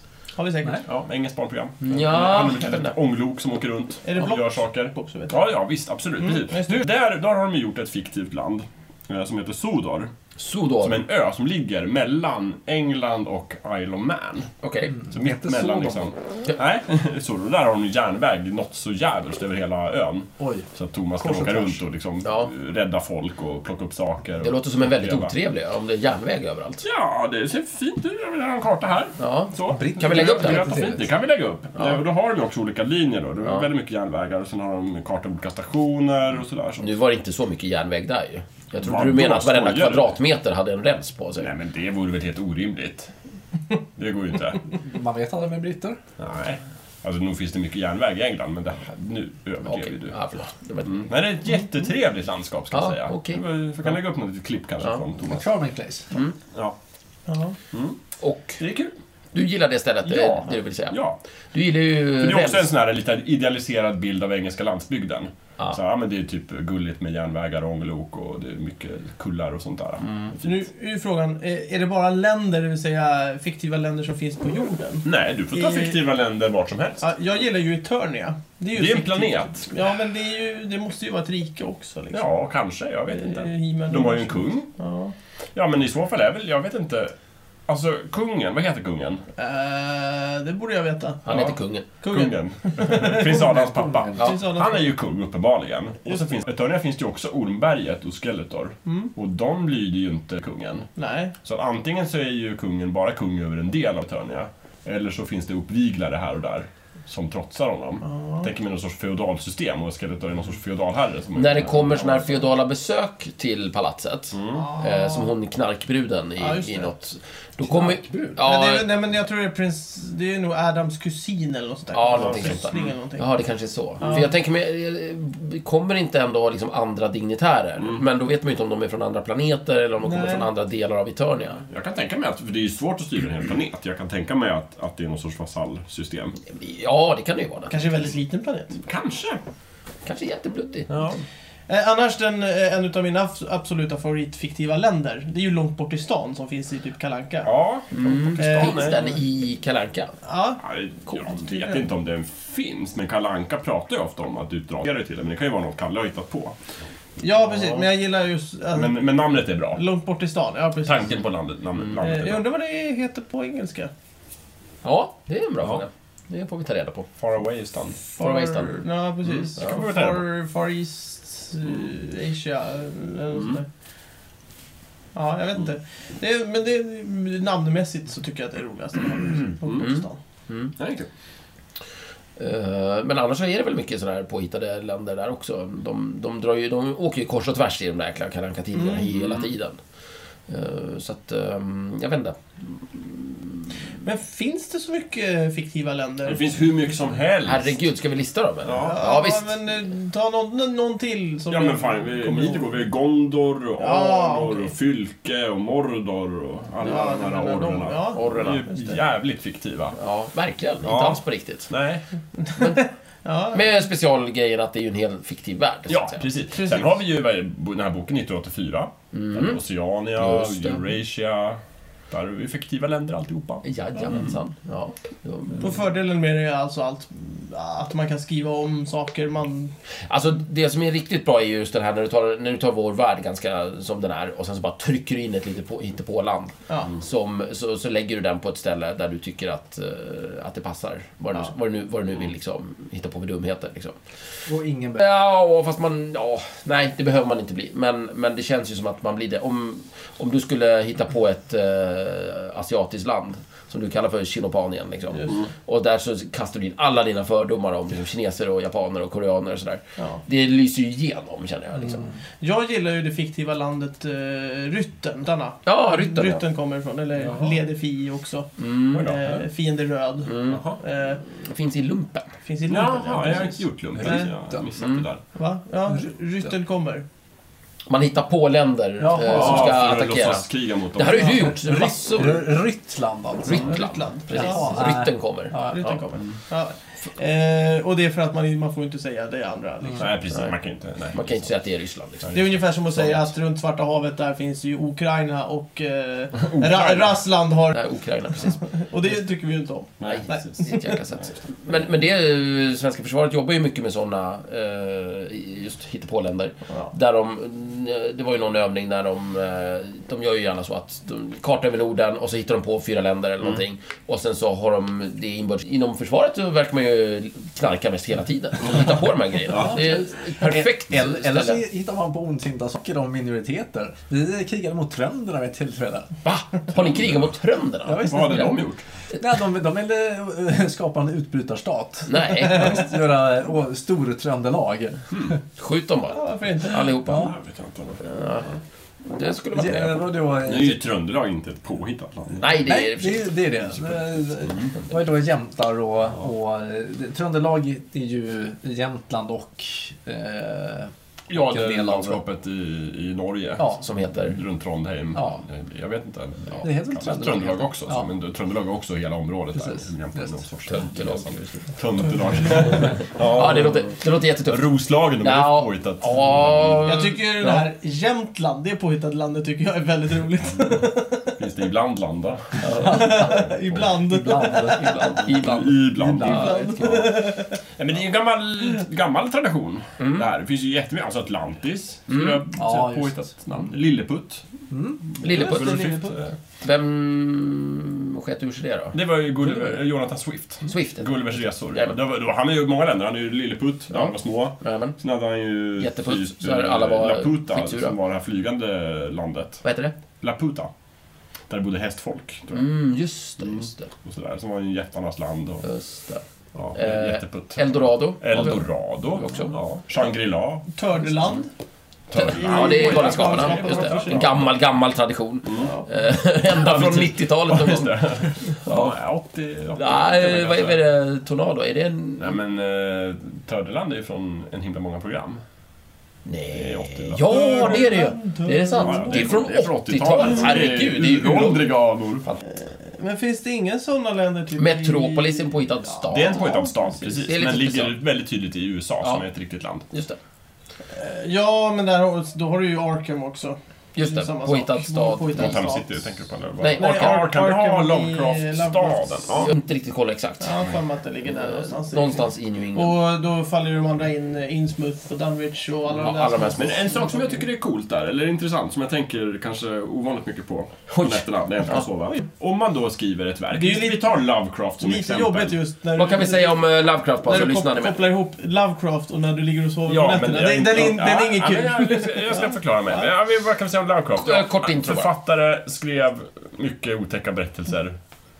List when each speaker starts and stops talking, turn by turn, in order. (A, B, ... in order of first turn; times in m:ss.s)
0:00.4-0:00.9 A
0:00.8-0:10.1 B
0:01.8-0:03.0 C
0:04.0-0:05.4 A
0:06.2-0:06.8 A
0:10.4-0:11.0 C
0:10.8-0:14.5 B
0:14.6-0:15.0 C
0:14.9-0:16.1 D
0:15.1-0:25.3 B
0:20.4-0:20.7 D
0:21.2-0:21.8 D
0:22.2-0:22.5 C
0:24.4-0:26.9 C
0:26.8-0:36.9 B
0:29.2-0:30.7 C
0:29.7-0:31.1 D
0:31.8-0:32.0 C
0:36.8-0:41.5 C
0:38.8-0:40.1 B
0:41.4-0:43.1 B
0:44.0-0:44.6 B
0:44.7-0:46.0 D
0:46.2-0:50.2 B
0:49.6-0:51.1 C
0:50.9-0:55.5 B
0:52.7-0:53.4 C
0:55.3-0:56.1 D
0:56.1-0:56.4 C
0:57.3-0:57.6 A
0:57.7-0:58.0 B
0:58.2-0:58.6 C
0:58.6-0:58.9 B
0:59.3-1:01.0 C
1:00.0-1:01.2 B
1:01.5-1:02.7 C
1:02.2-1:10.5 B
1:10.0-1:10.4 C
1:10.4-1:16.0 A
1:15.0-1:17.1 B
1:17.0-1:22.3 A
1:18.7-1:19.7 B
1:22.1-1:24.7 B
1:23.1-1:25.1 A
1:25.6-1:27.2 B
1:27.7-1:29.2 B
1:29.4-1:31.3 A
1:31.3-1:31.9 C
1:31.3-1:31.6 B
1:32.0-1:33.5 A
1:32.1-1:40.9 B
1:33.1-1:34.3 D
1:34.2-1:34.8 A
1:36.0-1:36.4 A
1:38.9-1:39.1 A
1:41.0-1:41.3 A
1:41.4-1:52.5 B
1:48.1-1:48.5 A
1:51.4-1:58.9 C
1:54.3-1:54.7 B
1:54.5-1:55.3 A
1:56.4-1:56.9 A
1:57.6-1:58.4 D
1:58.4-2:03.3 A
2:01.9-2:11.6 C
2:02.1-2:02.9 B
2:04.0-2:04.3 A
2:10.0-2:10.5 A
2:11.7-2:16.4 B
2:16.4-2:18.1 C
2:17.7-2:18.8 A
2:18.8-2:19.4 B
2:20.0-2:20.9 C
2:20.9-2:21.2 B
2:21.7-2:27.5 A
2:27.4-2:29.0 B
2:27.9-2:30.1 C
2:28.4-2:29.2 A
2:30.2-2:31.8 A
2:30.6-2:36.6 B
2:37.2-2:39.0 A
2:38.7-2:39.8 B
2:39.7-2:41.2 A
2:40.8-2:42.4 B
2:42.0-2:43.9 A
2:44.8-2:47.1 C
2:47.2-2:48.0 B
2:48.1-2:53.7 A
2:48.2-2:48.8 C
2:49.3-2:50.3 B
2:53.3-2:53.6 B
2:55.1-3:00.2 A
2:59.6-2:59.9 B
2:59.7-3:00.7 C
3:00.8-3:01.1 B
3:02.4-3:09.8 C
3:08.7-3:09.1 A
3:09.0-3:09.5 B
3:10.5-3:12.4 C
3:12.9-3:13.2 C
3:14.0-3:16.4 A
3:16.2-3:17.8 B
3:17.5-3:19.6 C
3:18.6-3:19.0 B
3:18.7-3:22.7 A
3:21.5-3:30.0 B
3:23.8-3:24.7 A
3:26.8-3:29.0 A
3:28.1-3:28.7 C
3:30.0-3:31.7 C
3:30.8-3:32.0 B
3:32.6-3:32.9 C
3:33.2-3:33.7 A
3:33.5-3:36.2 C
3:35.9-3:44.3 B
3:36.6-3:36.9 A
3:39.1-3:39.6 C
3:40.2-3:40.8 C
3:43.6-3:45.8 C
3:45.6-3:49.7 A
3:50.1-4:04.0 C
3:56.7-3:57.0 A
4:04.5-4:05.0 D
4:05.0-4:22.1 C
4:22.4-4:31.2 A
4:25.7-4:26.4 C
4:28.6-4:29.2 C
4:28.9-4:29.4 B
4:30.2-4:30.7 C
4:30.5-4:30.8 B
4:31.4-4:32.3 C
4:32.4-4:34.3 A
4:32.7-4:35.2 B
4:34.0-4:34.7 D
4:34.8-4:35.1 C
4:35.3-4:37.0 A
4:37.9-4:42.5 C
4:39.0-4:39.9 D
4:39.3-4:41.6 B
4:41.0-4:45.9 D
4:43.4-4:46.1 C
4:43.5-4:44.9 A
4:45.7-4:50.2 A
4:50.0-4:51.5 B
4:50.3-4:50.6 C
4:51.1-4:53.3 C
4:52.3-4:57.8 A
4:56.4-4:57.2 B
4:57.7-4:58.6 C
4:58.5-5:00.9 A
5:00.0-5:00.8 B
5:00.0-5:21.6 C
5:19.5-5:26.2 D
5:26.2-5:28.5 C
5:27.9-5:35.4 D
5:28.0-5:28.8 B
5:32.1-5:32.8 C
5:35.6-5:37.3 C
5:36.1-5:37.0 A
5:37.1-5:37.3 D
5:37.1-5:38.0 B
5:38.0-5:38.5 C
5:39.1-5:40.1 C
5:39.5-5:40.8 D
5:40.4-5:42.6 B
5:42.4-5:43.3 C
5:42.6-5:52.2 D
5:43.8-5:44.7 B
5:51.3-6:07.0 B
5:53.8-5:54.4 C
5:55.2-5:55.4 D
5:56.6-5:58.1 D
5:59.6-6:00.3 D
6:00.7-6:01.6 C
6:03.2-6:04.7 C
6:05.2-6:07.7 C
6:06.8-6:11.4 A
6:11.4-6:13.3 B
6:12.6-6:13.2 C
6:12.8-6:15.2 A
6:12.9-6:17.0 D
6:14.9-6:16.5 C
6:15.2-6:24.4 B
6:16.2-6:17.6 A
6:20.0-6:20.3 C
6:22.1-6:22.4 C
6:22.6-6:23.3 D
6:24.7-6:26.2 D
6:25.2-6:26.0 C
6:25.2-6:26.3 B
6:26.6-6:29.0 C
6:28.9-6:39.6 B
6:30.7-6:31.1 C
6:33.9-6:35.0 C
6:35.8-6:38.0 C
6:39.6-6:39.9 C
6:40.2-6:40.7 B
6:41.5-6:42.7 B
6:42.5-6:43.9 C
6:43.4-6:45.7 B
6:45.6-6:46.2 C
6:46.6-6:50.7 B
6:46.7-6:49.6 C
6:50.7-6:51.5 A
6:52.1-6:54.4 B
6:52.1-6:59.0 C
6:52.2-6:54.4 A
6:55.4-6:55.8 B
6:55.6-6:55.8 A
6:56.5-7:00.8 B
6:59.8-7:02.4 C
7:02.2-7:05.4 B
7:06.2-7:12.4 C
7:06.5-7:08.0 B
7:07.3-7:09.4 A
7:08.8-7:12.2 B
7:12.5-7:15.5 A
7:14.6-7:16.6 C
7:16.1-7:17.2 A
7:16.1-7:19.9 B
7:17.2-7:18.0 C
7:19.9-7:20.2 C
7:20.9-7:26.0 A
7:24.0-7:25.7 C
7:25.3-7:29.5 B
7:26.6-7:27.3 C
7:26.8-7:29.5 A
7:29.4-7:30.7 C
7:30.4-7:37.4 A
7:31.3-7:33.0 C
7:35.9-7:36.8 C
7:36.5-7:45.6 B
7:40.9-7:41.8 C
7:43.5-7:44.2 A
7:44.8-7:46.6 A
7:46.0-7:48.0 C
7:47.2-7:52.5 A
7:49.9-7:58.0 B
7:54.2-7:55.1 C